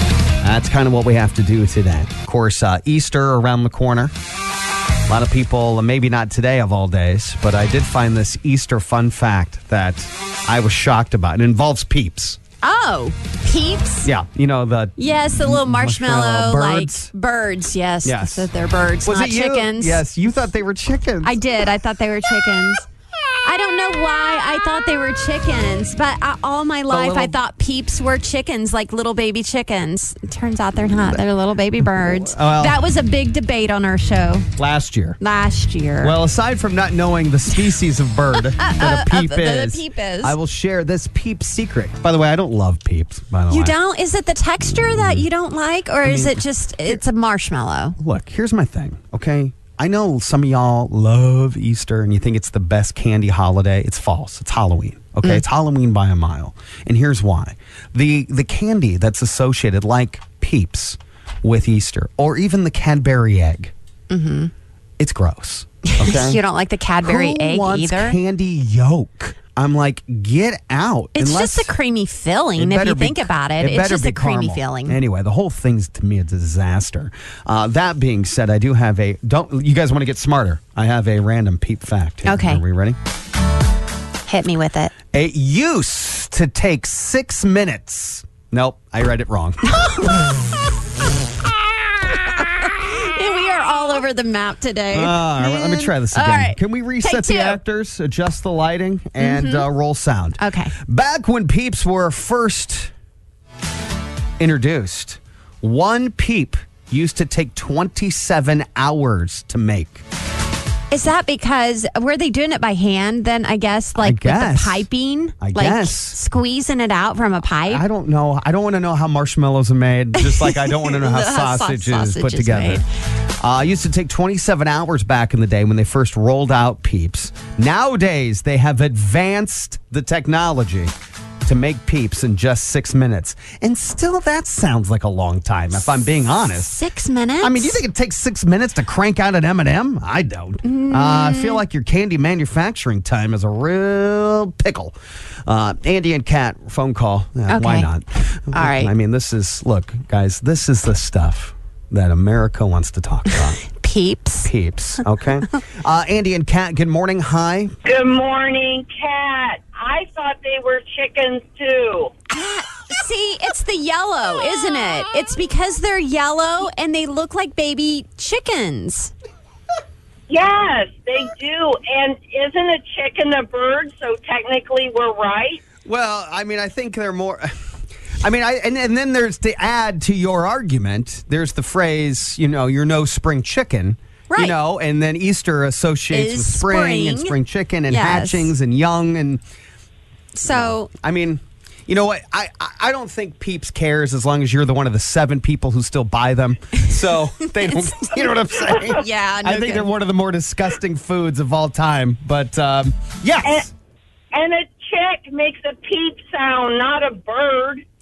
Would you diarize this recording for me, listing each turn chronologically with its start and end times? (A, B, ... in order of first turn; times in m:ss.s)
0:00.4-0:04.1 A
0:05.1-0:12.4 A
0:12.6-0:14.1 B
0:14.0-0:17.1 A
0:15.0-0:20.0 B
0:18.0-0:18.5 A
0:19.0-0:21.4 A
0:21.2-0:22.9 B
0:23.4-0:34.5 B
0:26.9-0:27.4 A
0:31.9-0:32.8 A
0:34.6-0:35.2 A
0:35.2-0:36.2 B
0:36.0-0:43.8 A
0:38.3-0:40.4 B
0:43.5-0:48.0 B
0:46.0-0:46.4 A
0:48.0-1:03.7 A
1:04.1-1:04.5 B
1:05.0-1:06.4 A
1:05.9-1:08.2 B
1:07.0-1:11.7 A
1:11.2-1:15.0 B
1:12.6-1:23.0 A
1:22.2-1:22.6 B
1:24.3-1:24.9 B
1:25.1-1:29.7 A
1:29.6-1:30.4 B
1:32.1-1:37.6 B
1:34.9-1:42.9 A
1:39.2-1:39.7 B
1:40.4-1:40.8 B
1:44.4-1:50.0 A
1:50.9-1:57.8 B
1:54.0-1:54.8 A
1:55.4-1:56.2 A
1:57.7-2:02.8 A
2:00.2-2:02.8 B
2:03.4-2:10.9 A
2:11.4-2:16.8 A
2:16.5-2:17.8 B
2:17.4-2:25.0 A
2:20.6-2:21.6 B
2:25.5-2:33.6 A
2:27.5-2:27.9 B
2:28.5-2:28.9 B
2:33.3-2:34.5 B
2:34.4-2:37.8 A
2:37.8-2:42.1 C
2:42.3-2:49.1 B
2:50.3-2:55.6 C
2:55.8-2:57.5 A
2:58.2-3:09.4 A
3:04.3-3:04.6 B
3:06.1-3:07.4 B
3:07.9-3:08.5 B
3:10.4-3:10.9 B
3:10.4-3:23.7 A
3:16.9-3:18.3 B
3:19.0-3:19.9 B
3:24.3-3:27.8 C